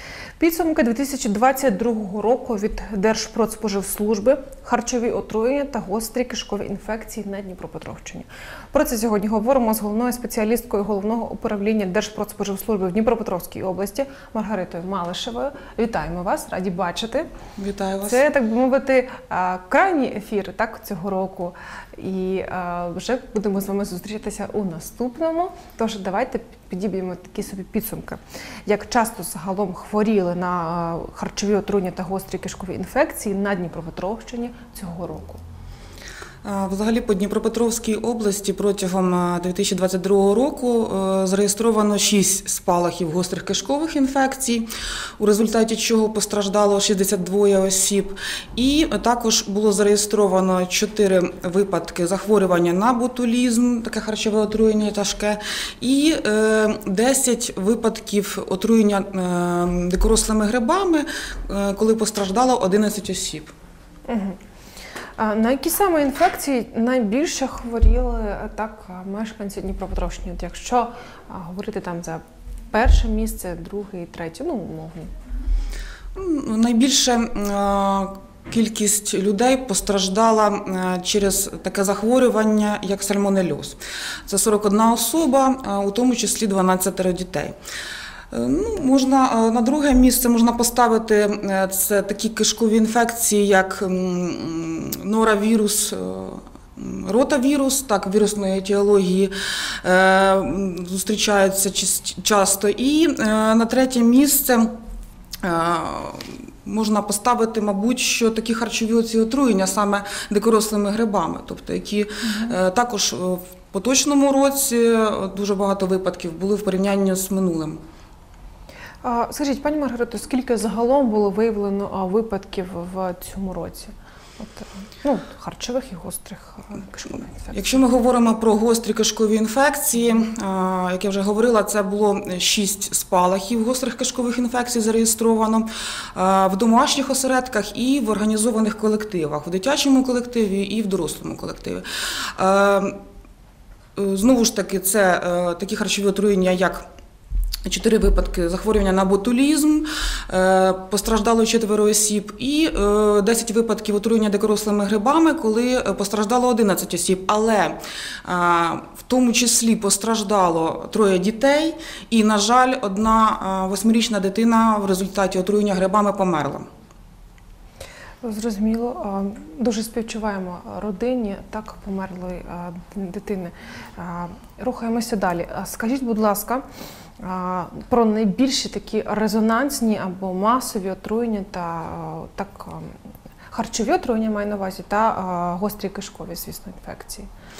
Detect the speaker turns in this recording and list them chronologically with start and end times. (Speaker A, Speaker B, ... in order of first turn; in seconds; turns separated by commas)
Speaker A: 0.4-17.3, Speaker B: 17.6-18.2, Speaker A: 18.0-35.4, Speaker B: 36.4-44.7, Speaker B: 45.2-63.5, Speaker A: 64.1-64.4, Speaker A: 65.2-75.1, Speaker B: 76.2-87.6, Speaker B: 88.3-104.7, Speaker B: 105.4-117.8, Speaker A: 119.0-127.7, Speaker B: 127.5-141.8, Speaker B: 142.4-143.0, Speaker B: 144.0-146.8, Speaker B: 147.7-166.7, Speaker A: 168.2-176.6, Speaker A: 177.2-182.9, Speaker A: 183.5-187.3